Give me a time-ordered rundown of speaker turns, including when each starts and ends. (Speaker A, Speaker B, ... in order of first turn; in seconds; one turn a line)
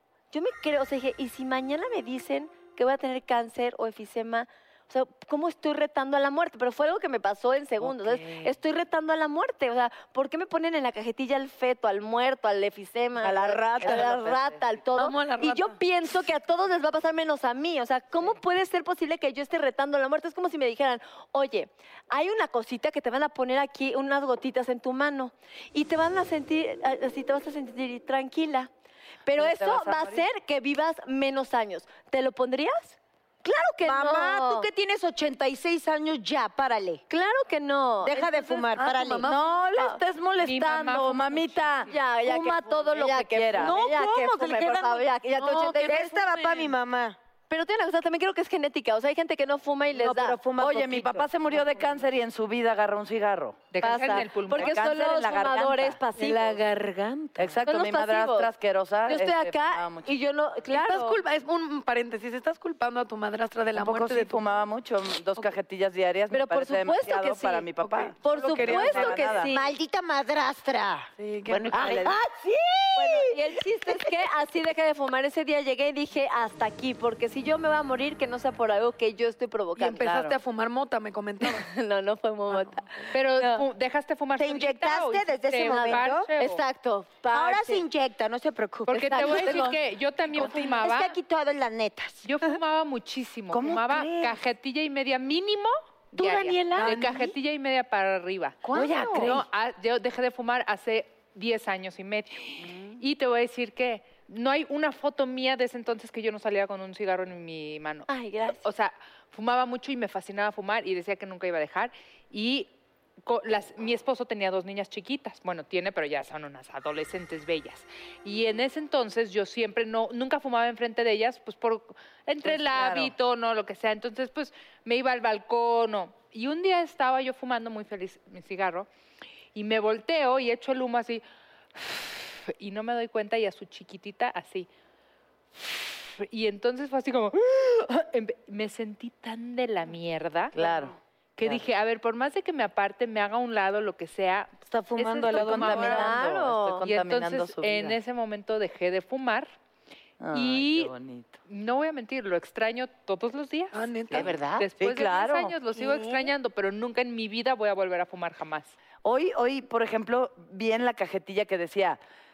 Speaker A: 0.3-28.7
Speaker B: 7.9-8.4
Speaker C: 13.2-14.6
Speaker D: 13.5-14.0
Speaker E: 14.9-15.8
Speaker A: 29.2-34.7
Speaker C: 29.3-30.3
Speaker D: 33.8-37.0
Speaker A: 37.1-38.6
Speaker D: 38.0-39.3
Speaker E: 38.7-39.4
Speaker C: 39.2-43.8
Speaker F: 40.4-42.0
Speaker A: 41.9-46.1
Speaker E: 43.6-46.8
Speaker D: 43.6-44.9
Speaker D: 45.8-47.2
Speaker A: 47.5-50.4
Speaker D: 49.9-52.0
Speaker C: 50.6-56.0
Speaker F: 53.7-54.8
Speaker A: 53.9-56.6
Speaker D: 56.5-57.3
Speaker C: 57.4-60.1
Speaker A: 57.6-58.5
Speaker A: 59.1-61.2
Speaker E: 60.7-64.4
Speaker C: 63.7-69.5
Speaker A: 66.3-67.7
Speaker E: 67.8-69.4
Speaker A: 68.2-69.7
Speaker D: 69.5-71.1
Speaker E: 71.2-72.1
Speaker B: 71.5-72.2
Speaker C: 71.7-73.3
Speaker A: 72.9-80.1
Speaker E: 79.8-81.7
Speaker C: 80.0-80.3
Speaker A: 81.4-82.8
Speaker E: 82.5-83.1
Speaker F: 83.1-86.6
Speaker A: 83.3-83.6
Speaker D: 84.4-86.3
Speaker A: 85.6-87.8
Speaker D: 87.3-89.7
Speaker F: 88.9-91.2
Speaker A: 88.9-89.8
Speaker D: 90.3-92.4
Speaker E: 90.4-90.6
Speaker F: 92.2-98.6
Speaker C: 93.5-94.4
Speaker B: 96.1-97.2
Speaker B: 98.6-99.4
Speaker C: 98.7-99.4
Speaker F: 99.2-112.7
Speaker B: 102.6-103.0
Speaker A: 108.1-108.6
Speaker F: 113.2-128.9
Speaker C: 122.4-123.1
Speaker F: 129.5-131.2
Speaker F: 131.8-134.7
Speaker F: 135.5-140.6
Speaker C: 140.5-141.6
Speaker F: 141.4-146.1
Speaker D: 144.7-146.1
Speaker C: 145.3-148.0
Speaker A: 145.5-146.8
Speaker F: 146.8-149.5
Speaker C: 150.2-151.4
Speaker F: 150.3-150.9
Speaker F: 151.5-153.8
Speaker E: 153.7-154.4
Speaker B: 154.1-154.7
Speaker F: 154.6-158.7
Speaker C: 154.8-155.6
Speaker C: 159.0-162.0